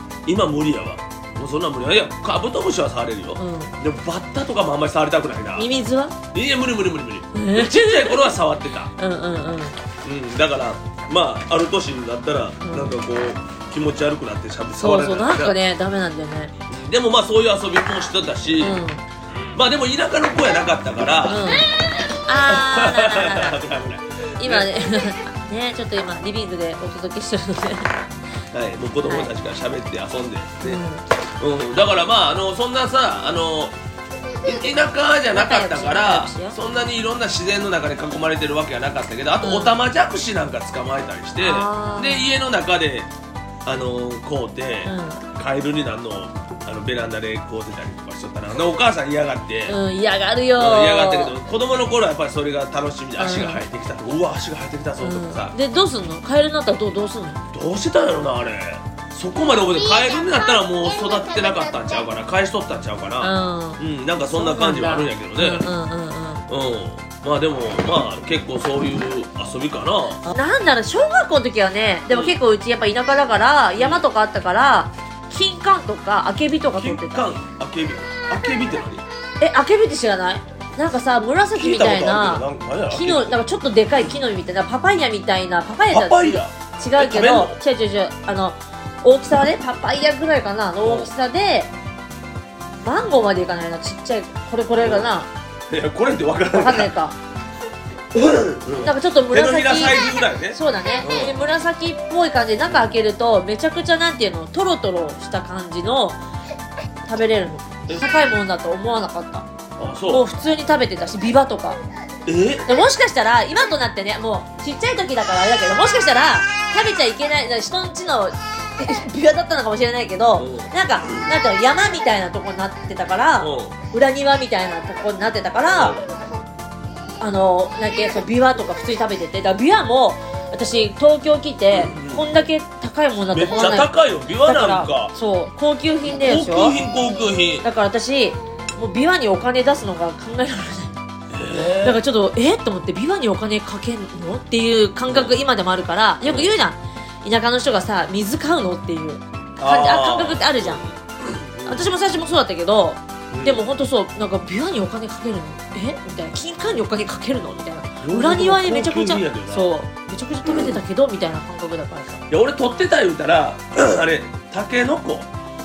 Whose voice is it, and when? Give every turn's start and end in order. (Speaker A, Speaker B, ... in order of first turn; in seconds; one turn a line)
Speaker A: 0.2-5.7
Speaker B: 3.4-3.7
Speaker B: 5.6-6.2
Speaker A: 6.3-8.9
Speaker B: 7.3-8.4
Speaker B: 9.0-9.8
Speaker A: 10.0-15.6
Speaker B: 12.6-13.0
Speaker B: 14.8-16.5
Speaker A: 16.7-18.8
Speaker B: 18.6-19.0
Speaker A: 19.6-21.6
Speaker B: 21.3-21.7
Speaker B: 22.2-23.6
Speaker A: 22.4-24.8
Speaker B: 24.4-28.0
Speaker A: 28.5-30.8
Speaker B: 29.0-29.3
Speaker B: 30.6-31.1
Speaker A: 31.4-33.7
Speaker A: 34.4-43.1
Speaker B: 35.3-36.6
Speaker B: 39.4-39.8
Speaker B: 41.4-42.3
Speaker A: 43.6-49.8
Speaker B: 44.8-45.2
Speaker B: 49.7-51.4
Speaker A: 50.6-55.5
Speaker B: 53.2-53.6
Speaker B: 55.0-57.4
Speaker A: 57.5-65.7
Speaker B: 63.2-66.5
Speaker A: 66.5-70.2
Speaker B: 70.2-77.2
Speaker A: 72.1-72.4
Speaker A: 73.8-74.0
Speaker A: 76.8-79.0
Speaker B: 79.4-91.7
Speaker A: 81.5-83.4
Speaker A: 85.9-87.6
Speaker A: 90.8-91.1
Speaker B: 92.8-95.3
Speaker A: 94.8-95.1
Speaker A: 95.7-96.9
Speaker B: 96.5-97.1
Speaker A: 98.1-101.4
Speaker B: 98.8-106.2
Speaker B: 107.1-109.5
Speaker A: 109.8-110.2
Speaker B: 110.1-111.8
Speaker A: 112.2-112.7
Speaker B: 112.7-126.0
Speaker A: 120.4-121.3
Speaker A: 123.4-123.7
Speaker A: 125.7-126.1
Speaker B: 127.2-136.8
Speaker A: 131.7-132.4
Speaker A: 133.3-135.1
Speaker A: 136.1-137.7
Speaker B: 137.6-141.0
Speaker A: 141.3-142.0
Speaker B: 141.5-150.8
Speaker A: 145.1-145.4
Speaker A: 146.2-146.5
Speaker A: 149.6-151.9
Speaker B: 151.7-162.2
Speaker A: 153.3-153.6
Speaker A: 158.0-159.7
Speaker A: 160.4-160.8
Speaker A: 162.3-165.3